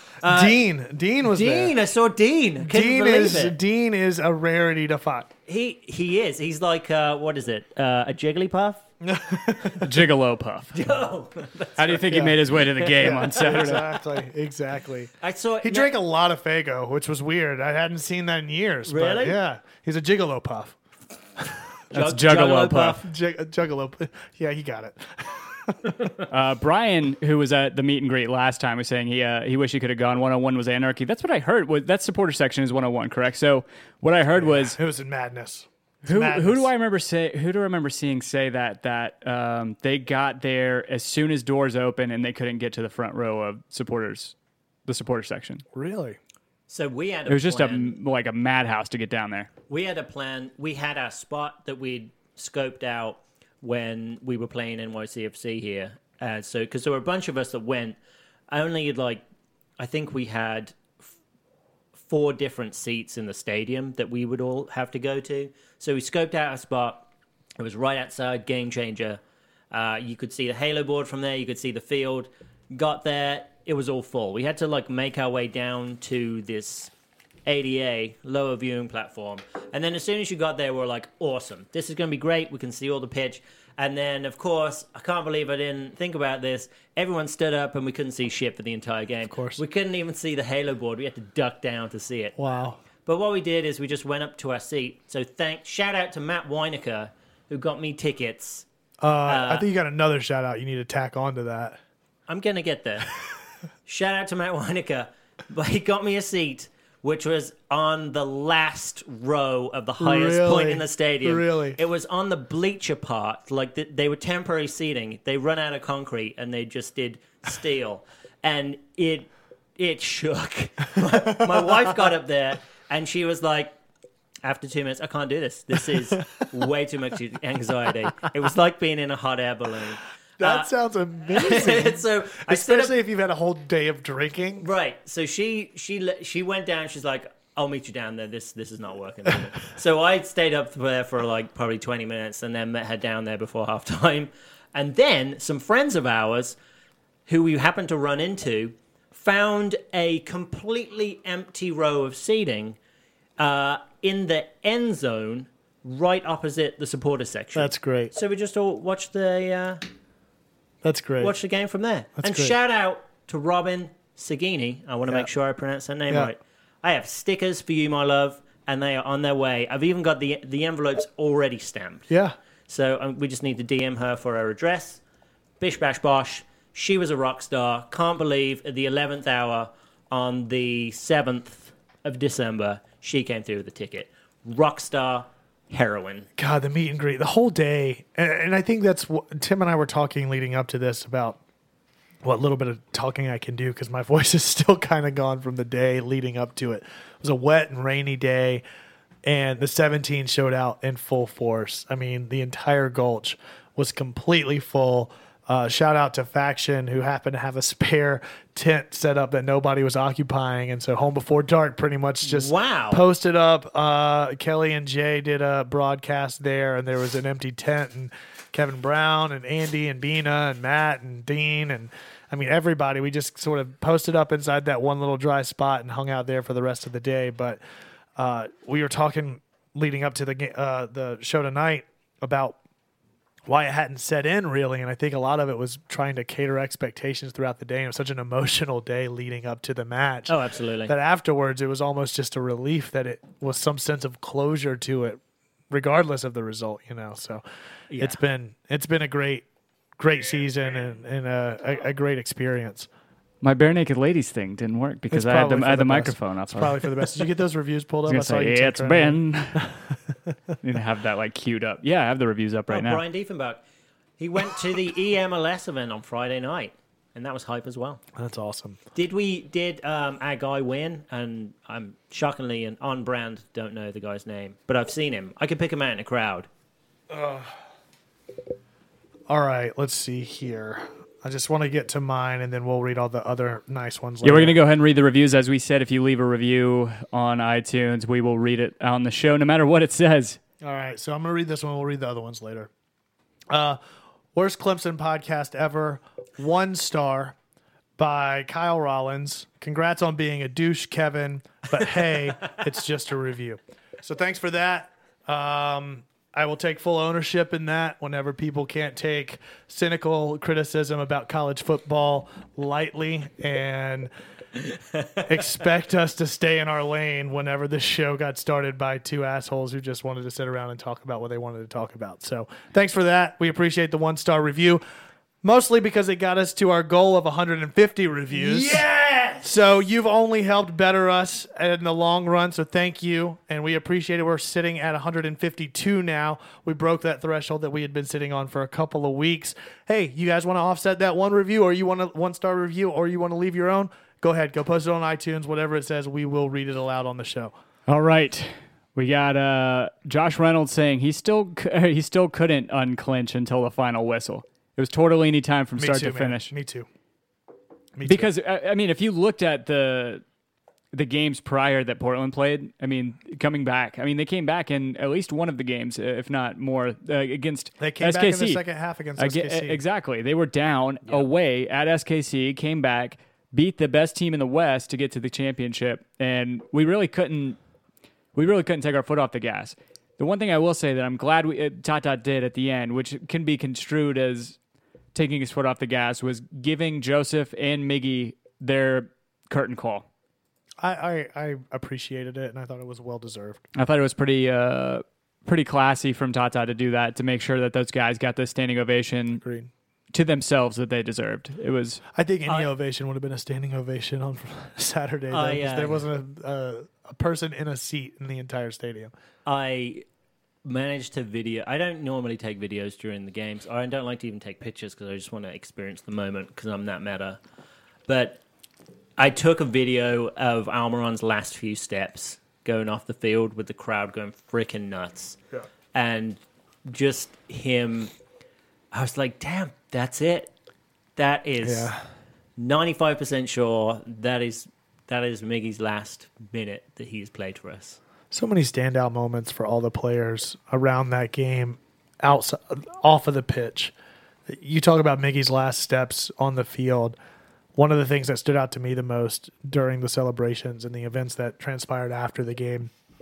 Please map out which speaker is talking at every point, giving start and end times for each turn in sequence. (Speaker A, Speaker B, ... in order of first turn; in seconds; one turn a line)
Speaker A: 0.2-0.6
Speaker B: 0.2-1.8
Speaker A: 1.2-3.6
Speaker B: 2.6-5.3
Speaker A: 5.5-8.8
Speaker B: 9.0-9.9
Speaker C: 9.8-10.8
Speaker A: 10.7-13.2
Speaker C: 11.8-13.9
Speaker B: 12.1-12.4
Speaker B: 12.9-20.8
Speaker A: 15.2-16.0
Speaker A: 18.9-19.4
Speaker A: 21.9-23.1
Speaker C: 21.9-23.0
Speaker B: 23.0-26.1
Speaker C: 26.3-34.8
Speaker B: 34.3-36.7
Speaker C: 36.0-44.4
Speaker C: 44.9-45.6
Speaker B: 45.7-46.2
Speaker A: 46.7-48.0
Speaker C: 47.3-49.5
Speaker A: 49.7-58.0
Speaker A: 58.5-59.2
Speaker A: 59.8-61.1
Speaker A: 62.1-67.1
Speaker A: 67.6-76.9
Speaker A: 77.5-92.4
Speaker B: 89.3-89.6
Speaker B: 92.4-92.8
Speaker A: 93.1-98.7
Speaker B: 99.0-101.8
Speaker A: 99.3-99.7
Speaker A: 102.3-103.2
Speaker A: 103.9-123.7
Speaker B: 110.0-111.8
Speaker B: 121.3-121.9
Speaker A: 124.4-130.7
Speaker B: 130.4-134.7
Speaker A: 131.3-133.0
Speaker A: 134.6-146.6
Speaker A: 147.3-152.8
Speaker A: 153.4-159.8
Speaker B: 157.6-158.1
Speaker B: 160.8-161.4
Speaker A: 161.2-172.1
Speaker B: 162.2-162.6
Speaker B: 172.1-172.4
Speaker A: 172.7-175.0
Speaker A: 175.6-186.3
Speaker B: 186.4-191.4
Speaker B: 192.2-198.6
Speaker B: 199.2-227.6
Speaker A: 212.2-213.0
Speaker B: 228.2-232.6
Speaker B: 233.5-247.4
Speaker A: 240.3-240.9
Speaker A: 247.9-248.2
Speaker B: 248.0-249.5
Speaker B: 250.0-252.9
Speaker C: 253.4-257.0
Speaker B: 255.1-260.3
Speaker C: 258.1-259.6
Speaker C: 260.6-263.0
Speaker A: 262.7-263.6
Speaker A: 264.2-268.0
Speaker B: 268.2-268.8
Speaker A: 268.9-276.5
Speaker B: 277.1-277.5
Speaker B: 279.3-284.6
Speaker C: 284.2-290.4
Speaker B: 290.6-292.7
Speaker B: 293.5-293.8
Speaker B: 294.4-297.4
Speaker B: 298.0-314.1
Speaker B: 315.2-324.8
Speaker B: 325.4-328.8
Speaker A: 328.3-329.6
Speaker B: 329.4-347.5
Speaker C: 347.9-356.5
Speaker B: 355.8-356.9
Speaker B: 358.0-358.3
Speaker C: 358.1-360.2
Speaker C: 360.9-368.6
Speaker B: 367.8-369.8
Speaker C: 369.2-377.6
Speaker C: 378.4-384.6
Speaker C: 385.1-390.1
Speaker B: 390.8-393.6
Speaker C: 393.8-399.4
Speaker B: 399.4-399.7
Speaker C: 400.1-402.0
Speaker B: 402.1-409.1
Speaker A: 405.3-406.1
Speaker A: 409.5-410.0
Speaker A: 410.6-417.4
Speaker A: 418.1-418.4
Speaker A: 419.2-425.4
Speaker A: 425.9-428.1
Speaker A: 428.9-430.5
Speaker A: 431.2-431.9
Speaker B: 431.6-432.0
Speaker A: 432.6-438.0
Speaker B: 438.3-443.9
Speaker B: 444.5-447.2
Speaker B: 447.8-452.9